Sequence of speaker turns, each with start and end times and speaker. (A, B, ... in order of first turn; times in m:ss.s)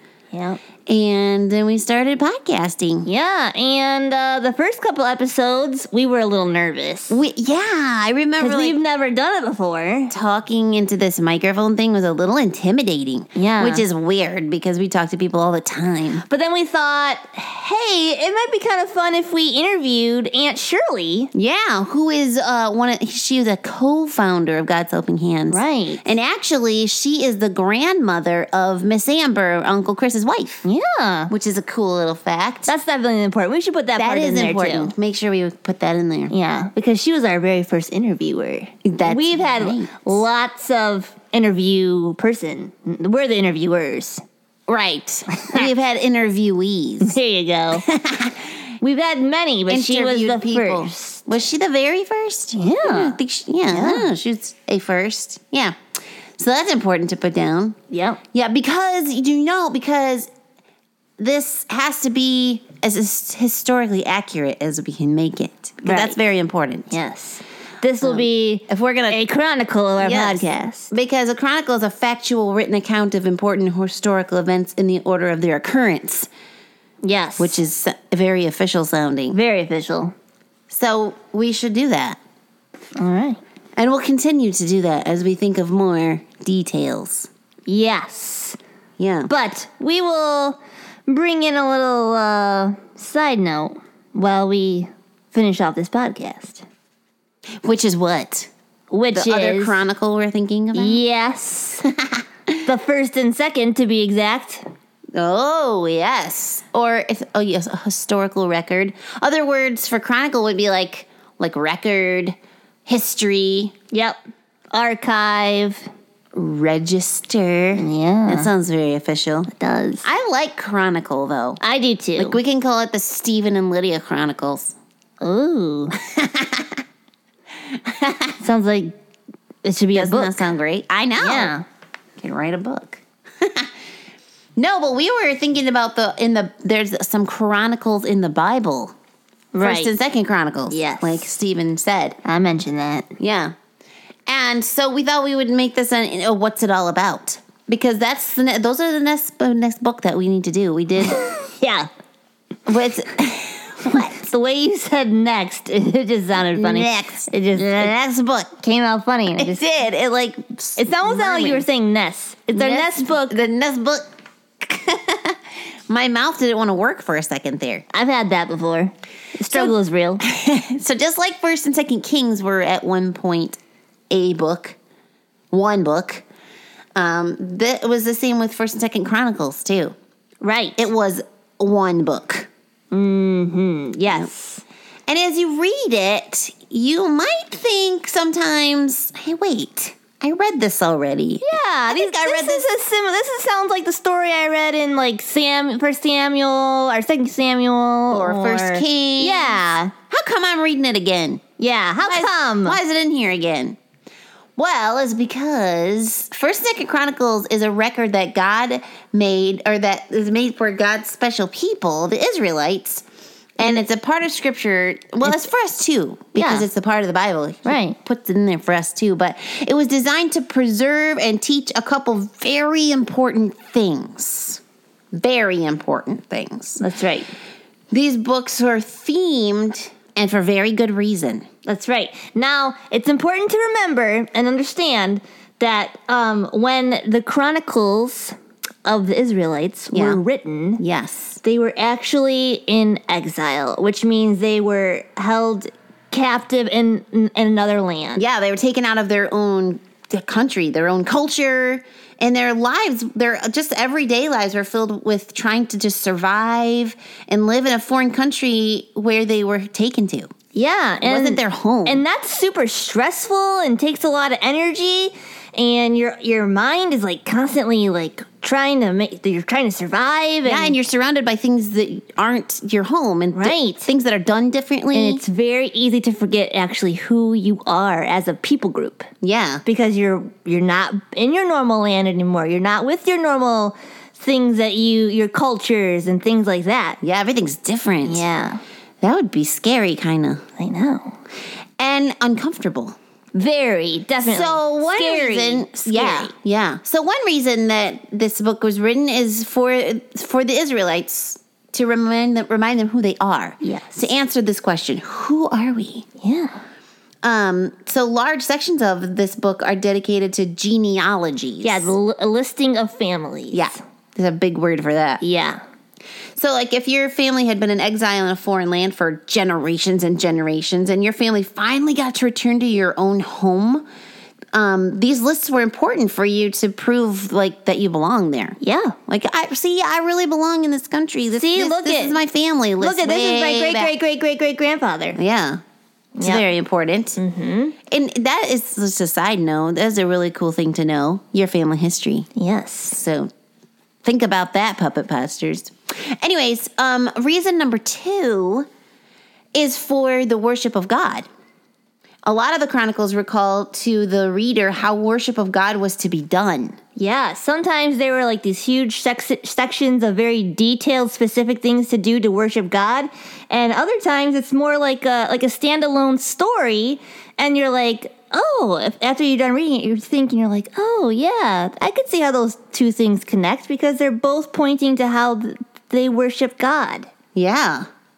0:00.3-0:00.6 A
0:00.8-0:03.1 B
0:03.0-0:07.2 A
0:07.1-0:08.8 B
0:08.4-0:10.1 A
0:10.1-0:16.2 B
0:13.3-0:13.8 A
0:16.2-0:21.3 A
0:21.3-0:30.6 B
0:25.5-0:26.0 A
0:30.6-0:31.3 A
0:31.3-0:32.7 B
0:32.7-0:34.9 A
0:34.0-0:36.3 B
0:36.3-0:44.2 A
0:38.8-0:40.2 B
0:44.7-0:47.2 B
0:45.3-0:45.7 A
0:47.0-0:47.8 A
0:47.7-0:48.4 B
0:48.8-0:51.2 A
0:49.7-0:55.7 B
0:52.5-0:53.2 A
0:53.7-0:54.1 A
0:56.4-0:57.7 B
0:57.9-0:58.2 A
0:58.3-1:00.3 B
1:01.2-1:06.9 B
1:05.8-1:06.2 A
1:06.9-1:10.9 A
1:08.0-1:09.2 B
1:10.0-1:16.3 B
1:17.0-1:17.6 A
1:17.4-1:19.4 B
1:19.3-1:20.1 A
1:20.7-1:22.2 B
1:23.0-1:23.4 A
1:23.8-1:27.3 B
1:27.7-1:28.6 A
1:29.0-1:29.3 B
1:29.3-1:36.6 A
1:37.6-1:38.5 B
1:38.9-1:39.8 A
1:39.1-1:41.0 B
1:40.7-1:41.8 A
1:42.6-1:44.7 A
1:45.2-1:53.7 B
1:53.9-1:54.2 A
1:54.7-1:55.9 A
1:56.3-1:59.5 B
1:57.8-1:58.5 A
1:59.5-2:00.0 A
2:00.0-2:01.6 B
2:01.6-2:02.4 A
2:02.1-2:04.7 B
2:05.2-2:05.9 A
2:06.0-2:06.7 B
2:07.8-2:08.3 B
2:08.4-2:08.9 A
2:09.6-2:10.5 A
2:09.9-2:11.5 B
2:11.2-2:11.6 A
2:12.2-2:13.7 B
2:14.6-2:18.9 B
2:19.5-2:19.9 A
2:19.6-2:22.2 B
2:20.7-2:21.3 A
2:22.2-2:23.1 A
2:23.2-2:23.5 B
2:24.3-2:31.2 B
2:31.0-2:31.9 A
2:32.7-2:34.2 B
2:33.9-2:37.9 A
2:36.6-2:38.5 B
2:38.6-2:39.6 A
2:39.3-2:41.6 B
2:40.8-2:43.4 A
2:42.5-2:44.0 B
2:44.6-2:47.8 B
2:47.9-2:50.2 A
2:49.5-2:53.6 B
2:54.1-2:54.8 B
2:55.5-2:56.2 B
2:57.0-2:59.9 B
3:00.4-3:00.8 A
3:00.8-3:02.5 B
3:02.9-3:04.6 A
3:05.1-3:12.7 B
3:11.4-3:19.9 A
3:18.1-3:19.6 B
3:20.1-3:21.4 B
3:21.6-3:22.8 A
3:22.0-3:23.8 B
3:24.6-3:33.0 B
3:33.6-3:44.6 B
3:35.2-3:35.5 A
3:36.3-3:36.7 A
3:37.6-3:38.0 A
3:45.1-3:46.8 B
3:46.8-3:47.3 A
3:47.9-3:51.5 B
3:51.6-4:00.8 A
3:59.9-4:00.2 B
4:00.8-4:01.4 B
4:01.4-4:08.2 A
4:08.2-4:20.3 B
4:20.5-4:30.7 A
4:21.0-4:22.0 B
4:30.4-4:35.2 B
4:33.3-4:33.9 A
4:34.9-4:39.1 A
4:39.2-4:39.6 B
4:39.6-4:47.0 A
4:47.0-4:48.3 B
4:48.0-4:48.6 A
4:49.0-4:50.4 B
4:50.6-4:51.2 A
4:51.8-4:53.0 B
4:53.3-4:56.3 A
4:54.2-5:06.1 B
5:03.6-5:04.1 A
5:06.2-5:06.6 A
5:07.2-5:11.9 B
5:11.6-5:13.7 A
5:13.5-5:15.2 B
5:15.2-5:15.6 A
5:16.4-5:23.8 B
5:24.5-5:33.9 B
5:28.6-5:29.0 A
5:31.3-5:32.2 A
5:32.8-5:35.2 A
5:35.1-5:35.6 B
5:36.2-5:36.4 A
5:36.2-5:37.2 B
5:37.2-5:37.7 A
5:37.9-5:42.3 B
5:42.4-5:43.0 A
5:42.9-5:43.3 B
5:44.0-5:48.7 B
5:49.5-5:51.3 B
5:52.2-5:56.8 B
5:57.0-6:17.1 A
6:17.3-6:17.9 B